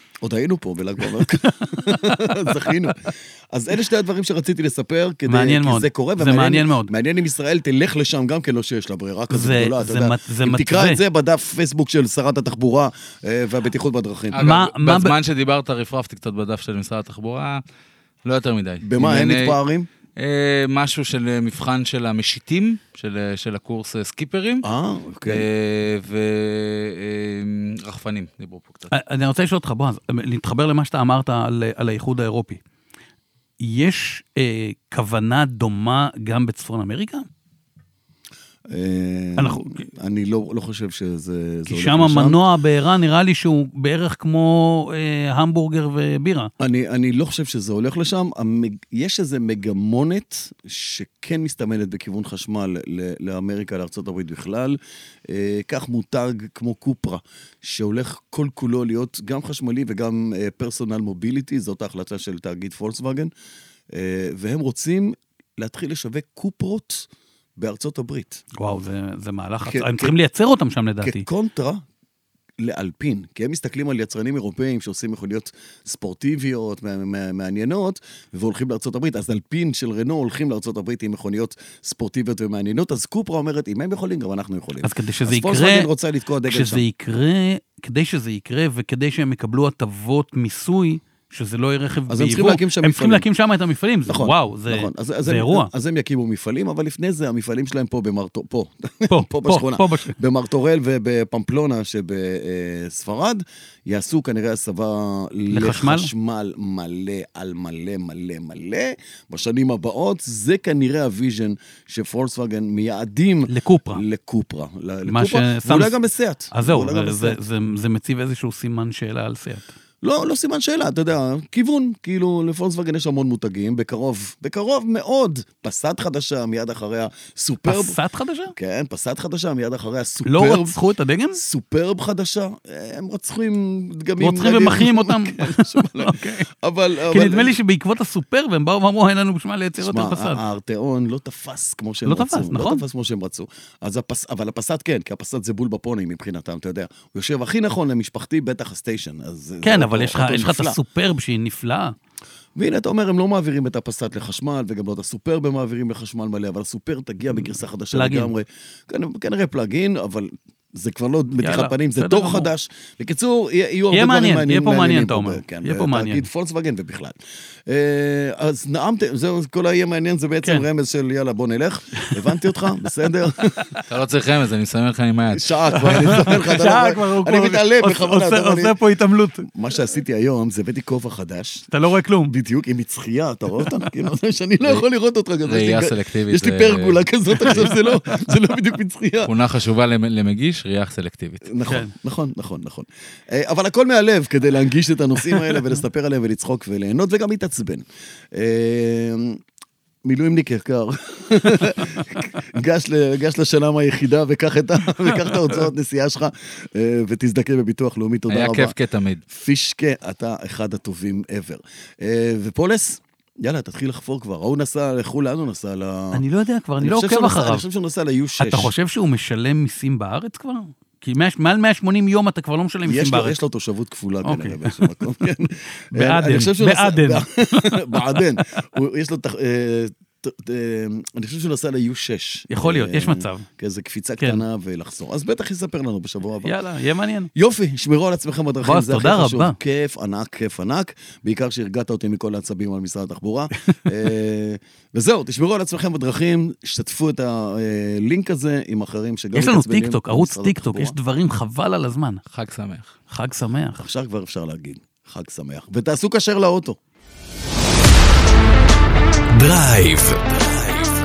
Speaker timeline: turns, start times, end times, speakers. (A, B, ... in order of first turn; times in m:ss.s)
0:00.2-0:14.4 A
0:01.1-0:02.7 B
0:05.3-0:06.9 B
0:09.3-0:11.0 B
0:14.3-0:17.6 C
0:14.4-0:15.1 B
0:18.2-0:19.6 C
0:18.8-0:19.9 A
0:20.2-0:24.6 C
0:24.6-0:25.4 A
0:25.3-0:28.9 C
0:28.9-0:32.6 B
0:33.6-0:37.2 B
0:38.7-0:42.4 A
0:39.4-0:39.8 B
0:41.7-0:46.5 B
0:46.6-1:03.3 A
1:03.9-1:08.4 A
1:08.6-1:11.2 B
1:09.6-1:10.1 A
1:11.0-1:11.8 A
1:12.6-1:26.8 A
1:24.8-1:25.9 B
1:26.5-1:35.7 B
1:32.1-1:33.2 A
1:34.1-1:57.4 A
1:39.1-1:40.1 B
1:45.5-1:46.1 B
1:53.5-1:54.0 B
1:55.1-1:55.9 B
1:56.5-1:59.7 B
2:00.0-2:08.0 A
2:07.7-2:08.5 B
2:08.5-2:10.8 A
2:10.2-2:11.4 B
2:11.3-2:17.6 A
2:14.2-2:16.4 B
2:17.1-2:20.4 B
2:19.8-2:30.8 A
2:22.1-2:22.8 B
2:29.6-2:31.9 B
2:32.6-2:47.2 A
2:37.4-2:38.3 B
2:41.4-2:42.5 B
2:43.9-2:46.3 B
2:47.7-2:53.8 A
2:52.0-2:52.3 B
2:53.9-2:55.5 C
2:55.3-2:58.7 A
2:55.8-2:59.5 B
2:59.5-3:01.7 A
3:01.7-3:02.3 B
3:02.3-3:09.3 A
3:03.6-3:03.9 B
3:05.4-3:07.7 C
3:09.2-3:11.4 C
3:11.4-3:19.4 A
3:11.7-3:11.9 B
3:15.3-3:15.6 B
3:20.0-3:28.7 A
3:28.3-3:29.2 C
3:29.3-3:36.2 A
3:36.1-3:37.6 B
3:36.8-3:38.7 A
3:38.4-3:43.4 B
3:42.8-3:56.5 A
3:44.2-3:44.9 B
3:45.9-3:48.6 B
3:52.5-3:53.5 B
3:56.4-3:57.3 B
3:57.3-4:10.9 A
3:58.6-3:59.6 B
4:09.3-4:12.2 B
4:12.3-4:13.0 C
4:13.1-4:13.8 B
4:13.8-4:16.8 A
4:19.4-4:20.2 A